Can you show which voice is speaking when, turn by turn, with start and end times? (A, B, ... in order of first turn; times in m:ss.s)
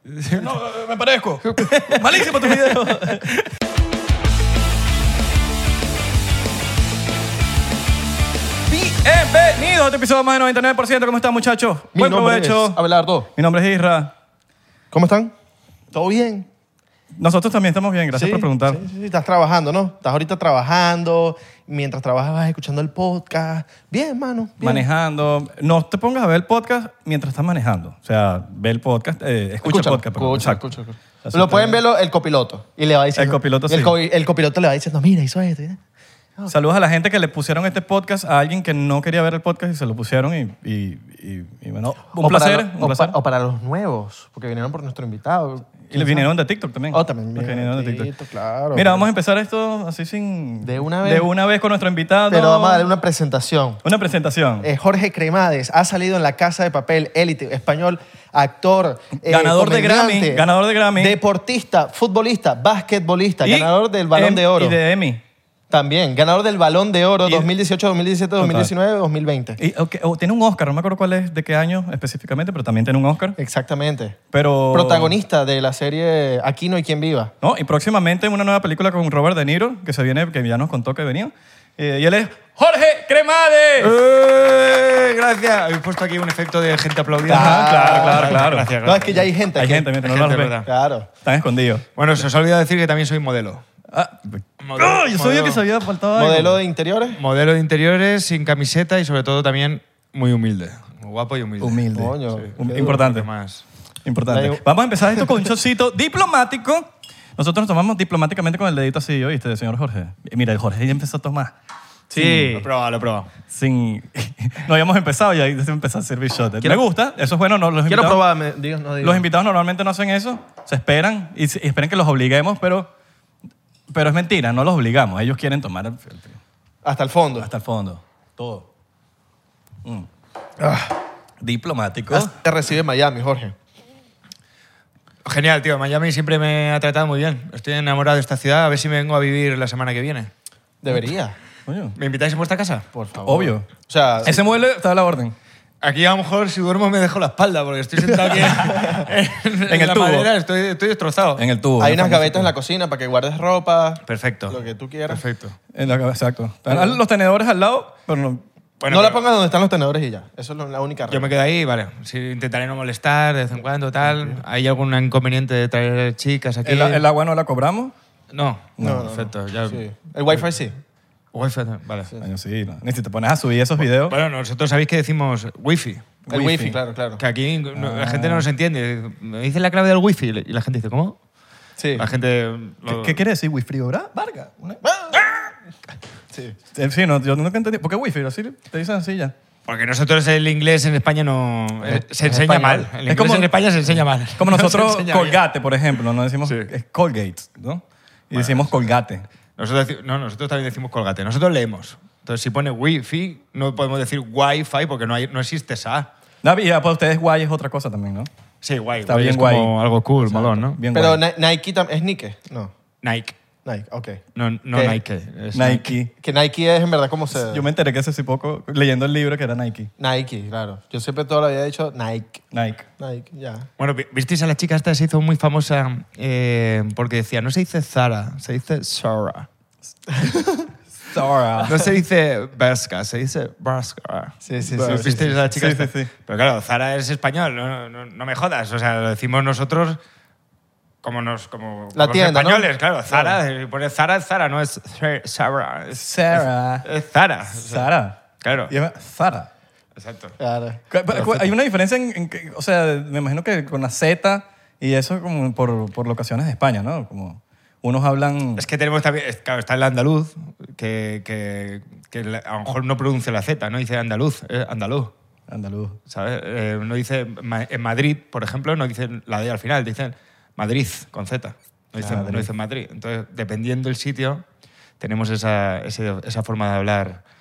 0:00.1-0:00.5 A
0:00.4-0:03.3 B
0:01.4-0:03.4 A
0:08.7-0:12.8 B
0:12.0-0:13.3 C
0:13.3-0:14.1 B
0:14.9-0:15.3 C
0:15.9-0:16.5 C
0:17.1-0:18.8 B
0:18.1-0:24.8 C
0:24.6-0:30.6 B
0:29.6-0:35.8 C
0:31.2-0:31.8 B
0:33.2-0:34.0 B
0:36.5-0:43.2 B
0:42.2-0:46.3 C
0:45.9-0:48.1 B
0:46.9-0:49.1 C
0:48.7-0:52.9 B
0:50.6-0:51.3 C
0:52.3-0:53.8 C
0:53.8-0:54.7 B
0:54.6-1:04.8 C
0:59.2-1:01.2 B
1:03.4-1:05.2 B
1:05.7-1:09.6 C
1:07.2-1:07.5 B
1:08.4-1:08.7 B
1:09.6-1:13.4 B
1:13.4-1:14.2 C
1:14.3-1:15.2 B
1:14.7-1:17.3 C
1:17.4-1:24.0 B
1:23.8-1:29.3 A
1:27.3-1:28.7 B
1:27.3-1:29.9 C
1:29.6-1:30.6 B
1:29.9-1:30.7 A
1:30.6-1:31.1 C
1:31.2-1:31.9 B
1:32.0-1:33.6 A
1:33.9-1:36.6 B
1:34.6-1:35.6 A
1:36.2-1:37.2 C
1:37.1-1:43.6 A
1:41.6-1:43.3 B
1:41.9-1:43.0 C
1:44.0-1:51.5 B
1:44.3-1:44.6 C
1:52.1-1:52.7 C
1:52.1-1:52.6 B
1:52.6-1:53.3 A
1:53.5-1:58.2 B
1:57.9-1:59.2 C
1:59.0-2:02.9 B
2:03.9-2:06.4 B
2:06.8-2:07.5 C
2:07.4-2:08.7 B
2:10.6-2:11.0 C
2:11.4-2:12.4 B
2:12.1-2:13.6 C
2:15.2-2:20.3 A
2:20.8-2:21.4 C
2:21.7-2:22.0 B
2:22.0-2:22.9 A
2:22.9-2:24.4 C
2:23.2-2:23.7 B
2:24.2-2:25.4 B
2:25.8-2:31.4 A
2:28.7-2:29.0 C
2:29.7-2:30.3 B
2:31.4-2:32.5 B
2:31.8-2:35.2 C
2:34.1-2:35.6 A
2:35.7-2:38.4 B
2:38.8-2:39.2 A
2:38.9-2:41.3 C
2:41.1-2:47.0 A
2:44.1-2:44.4 C
2:46.6-2:47.9 B
2:48.3-2:49.8 A
2:48.8-2:49.1 B
2:48.8-2:50.8 C
2:51.3-2:52.1 A
2:52.2-2:54.2 B
2:54.1-2:56.2 A
2:56.3-2:56.8 B
2:56.3-2:57.2 C
2:57.2-3:01.2 A
2:57.8-2:58.5 B
3:01.8-3:02.0 C
3:02.0-3:03.2 A
3:02.9-3:04.8 B
3:04.8-3:05.3 C
3:06.7-3:09.3 B
3:09.7-3:15.4 A
3:11.9-3:13.5 B
3:14.4-3:19.3 B
3:18.3-3:18.8 A
3:19.6-3:26.1 A
3:26.4-3:28.3 B
3:28.6-3:30.8 A
3:29.1-3:31.2 B
3:30.9-3:32.7 C
3:33.0-3:33.4 A
3:33.6-3:35.0 C
3:34.4-3:36.0 A
3:35.5-3:36.1 B
3:36.2-3:37.7 C
3:37.3-3:39.9 B
3:40.0-3:42.4 C
3:42.5-3:42.9 B
3:43.0-3:43.7 C
3:43.8-3:49.5 A
3:50.2-3:50.6 C
3:51.0-3:51.9 B
3:51.6-4:00.0 A
3:54.4-3:55.5 C
3:54.8-3:56.1 B
4:01.0-4:07.9 A
4:01.9-4:03.4 C
4:05.9-4:06.9 B
4:07.6-4:09.5 B
4:08.4-4:08.7 A
4:10.0-4:10.4 A
4:10.4-4:11.5 C
4:10.9-4:18.6 B
4:18.6-4:25.1 A
4:25.5-4:26.0 B
4:26.1-4:34.4 A
4:32.0-4:32.5 B
4:35.0-4:37.2 A